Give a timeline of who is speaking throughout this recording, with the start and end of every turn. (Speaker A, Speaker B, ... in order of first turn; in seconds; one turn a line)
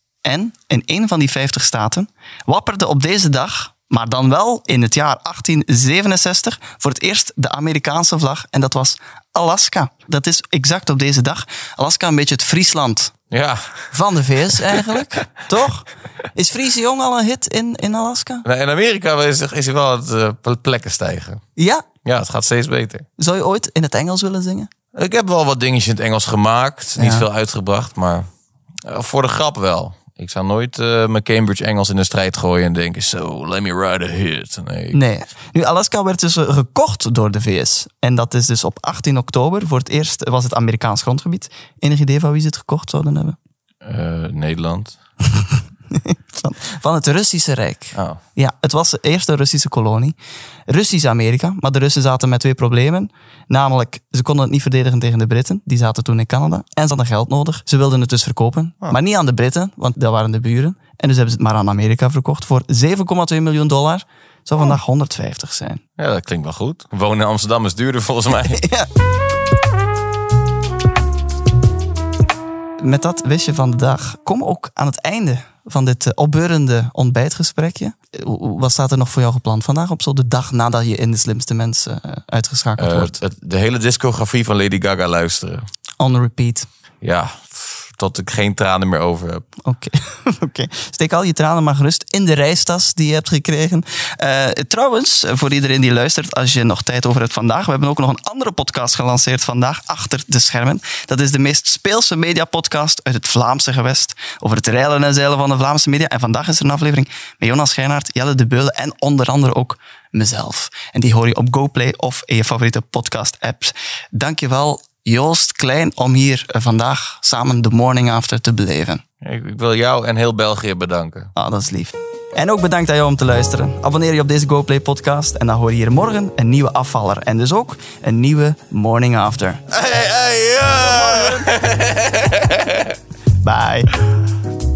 Speaker A: 0.2-13.1
Speaker B: 13.3-13.9
Speaker A: 13.9-18.4
Speaker B: 18.4-21.4
Speaker A: 21.6-21.9
Speaker B: 22.0-23.1
Speaker A: 23.2-24.7
Speaker B: 24.9-28.3
Speaker A: 27.0-27.3
Speaker B: 28.8-35.0
Speaker A: 34.9-43.4
Speaker B: 43.8-45.0
Speaker A: 45.9-50.1
Speaker A: 50.7-65.8
Speaker B: 66.0-68.6
Speaker A: 68.5-68.9
Speaker A: 72.8-83.1
Speaker B: 82.8-85.7
Speaker A: 86.0-86.7
Speaker B: 87.0-89.4
Speaker A: 89.6-119.0
Speaker B: 119.2-121.3
Speaker A: 121.3-129.6
Speaker B: 129.7-132.9
Speaker A: 133.4-133.9